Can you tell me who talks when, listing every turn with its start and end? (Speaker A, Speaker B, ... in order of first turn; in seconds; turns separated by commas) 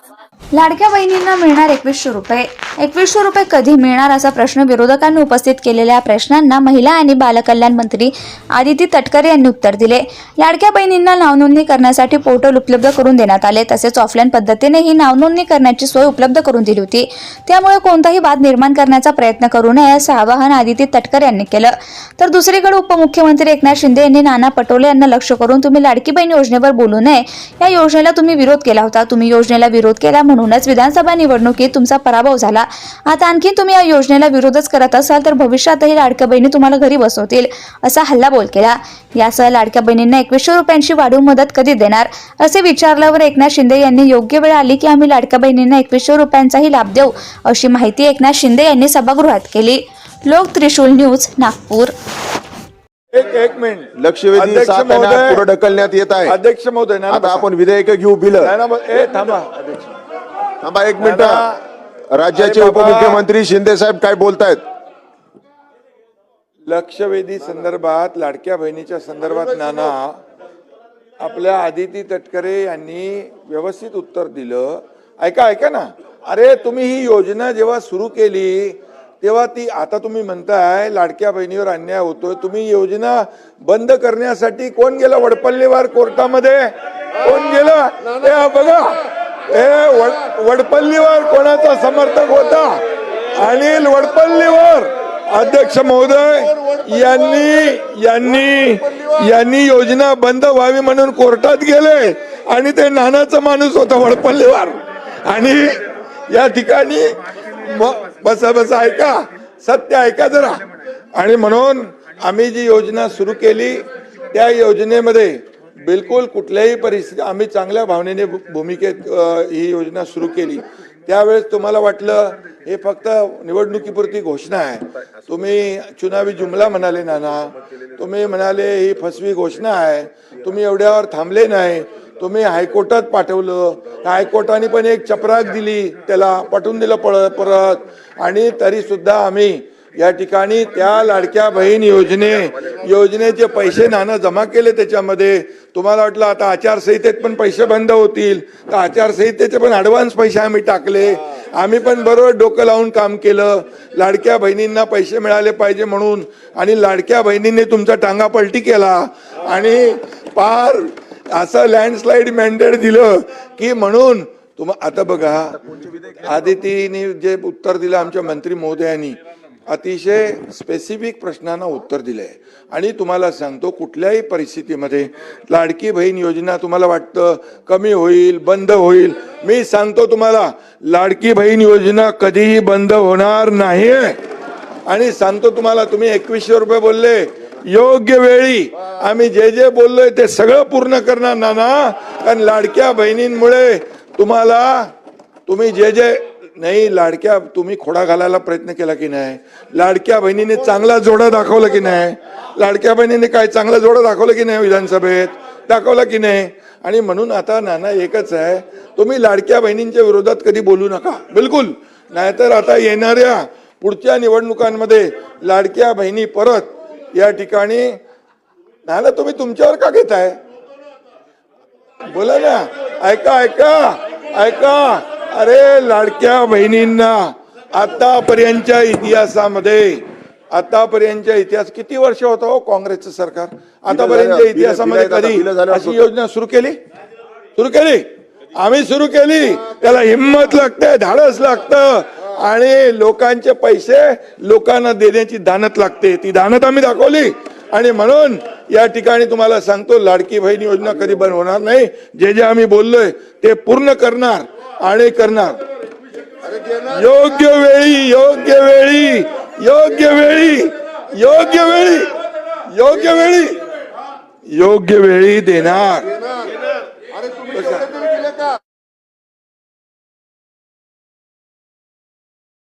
Speaker A: 0.5-51.9, Speaker B: 53.1-55.5, Speaker C: 54.0-56.4, Speaker B: 56.2-57.5, Speaker C: 57.1-58.5, Speaker B: 58.4-59.7, Speaker C: 60.6-61.4, Speaker B: 61.0-61.6, Speaker C: 62.1-64.6, Speaker B: 62.4-63.2, Speaker B: 66.7-70.2, Speaker B: 71.2-92.8, Speaker B: 93.3-165.6, Speaker B: 166.2-184.2, Speaker B: 184.9-194.9, Speaker B: 195.5-218.0, Speaker B: 218.8-220.4, Speaker B: 222.1-236.8, Speaker C: 233.9-236.1, Speaker B: 237.6-238.0, Speaker B: 238.6-255.6, Speaker B: 256.8-262.1, Speaker B: 262.7-263.6, Speaker B: 264.5-266.1, Speaker B: 267.5-268.0